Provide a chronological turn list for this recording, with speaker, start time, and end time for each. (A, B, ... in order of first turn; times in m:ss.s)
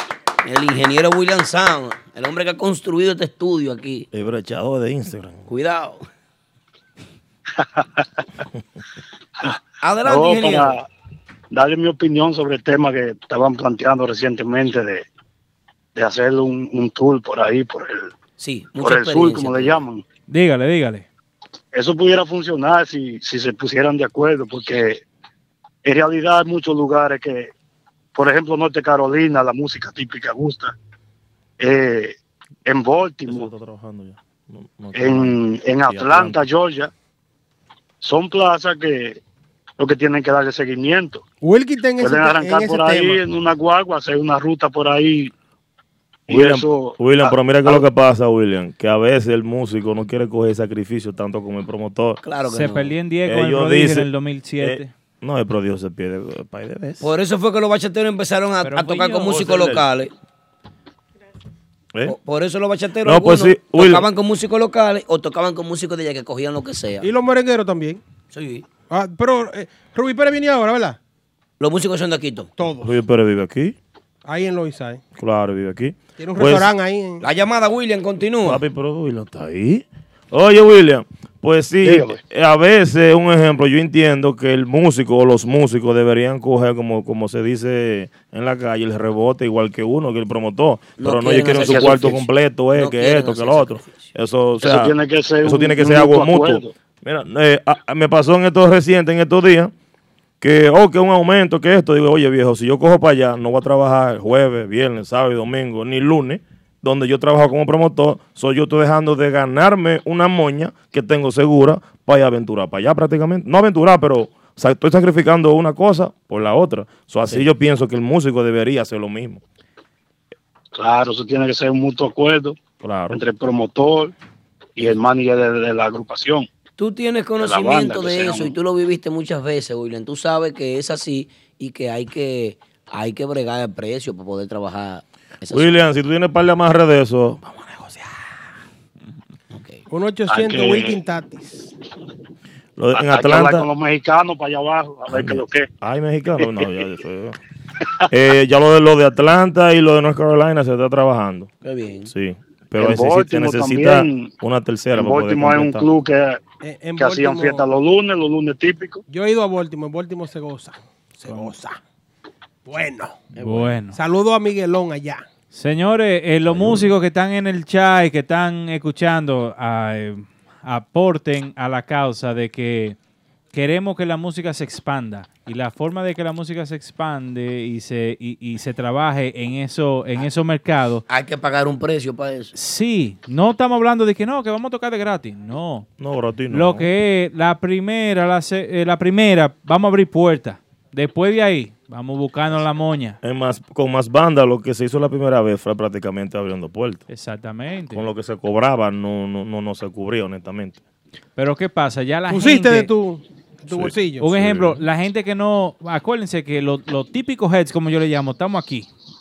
0:00.4-0:04.1 A
0:04.1-0:05.4 B
0:05.5-0:06.0 A
0:09.5-0:10.8 C
0:09.8-0:10.8 A
0:11.5-0:15.1 C
0:16.0-0:18.1 C
0:18.4-0:19.8 A
0:18.8-0:20.0 C
0:20.3-0:21.1 D
0:21.7-0:25.0 C
0:25.8-0:27.5 C
0:28.2-0:30.7 C
0:31.6-0:33.5 C
0:33.3-0:35.4 B
0:35.0-0:36.9 C
0:35.9-0:36.4 B
0:38.0-0:39.2 C
0:39.8-0:41.2 C
0:41.4-0:43.2 E
0:42.0-0:45.3 C
0:46.3-0:47.4 C
0:46.3-0:52.2 B
0:52.2-0:52.9 A
0:52.5-0:54.9 D
0:53.3-0:54.1 B
0:54.6-0:57.1 B
0:57.0-1:00.1 A
0:58.6-0:59.5 D
0:59.3-0:59.9 B
1:02.0-1:07.1 A
1:03.0-1:04.1 B
1:07.0-1:08.0 E
1:08.3-1:08.6 A
1:08.9-1:11.0 E
1:11.6-1:12.5 A
1:12.6-1:13.0 E
1:12.8-1:13.8 B
1:14.2-1:15.0 E
1:15.2-1:16.7 B
1:16.2-1:17.2 E
1:17.2-1:18.6 A
1:18.4-1:39.7 B
1:21.8-1:22.2 C
1:31.0-1:34.1 A
1:34.6-1:36.7 C
1:40.4-1:59.4 B
2:00.7-2:04.1 C
2:02.8-2:03.2 B
2:04.8-2:06.5 C
2:06.8-2:15.8 A
2:07.4-2:08.6 C
2:15.5-2:17.9 B
2:19.5-2:19.8 A
2:19.9-2:21.7 E
2:20.3-2:21.0 C
2:22.8-2:23.7 B
2:22.9-2:25.7 C
2:25.1-2:27.4 B
2:26.4-2:26.8 C
2:28.1-2:31.5 B
2:31.6-2:32.1 A
2:32.1-2:35.9 B
2:32.8-2:34.4 C
2:34.9-2:36.4 C
2:36.6-2:37.6 E
2:37.0-2:39.0 C
2:39.1-2:41.8 E
2:42.7-2:43.2 E
2:43.4-2:44.0 D
2:43.4-2:43.7 A
2:43.9-2:45.3 E
2:45.5-2:53.0 D
2:46.5-2:46.9 B
2:53.5-3:01.0 D
3:01.1-3:02.5 A
3:02.5-3:05.9 D
3:06.0-3:06.9 B
3:06.5-3:13.2 D
3:13.2-3:17.0 B
3:17.1-3:18.0 D
3:17.9-3:20.8 B
3:21.4-3:22.9 D
3:22.3-3:24.3 E
3:23.7-3:24.8 B
3:24.2-3:28.9 D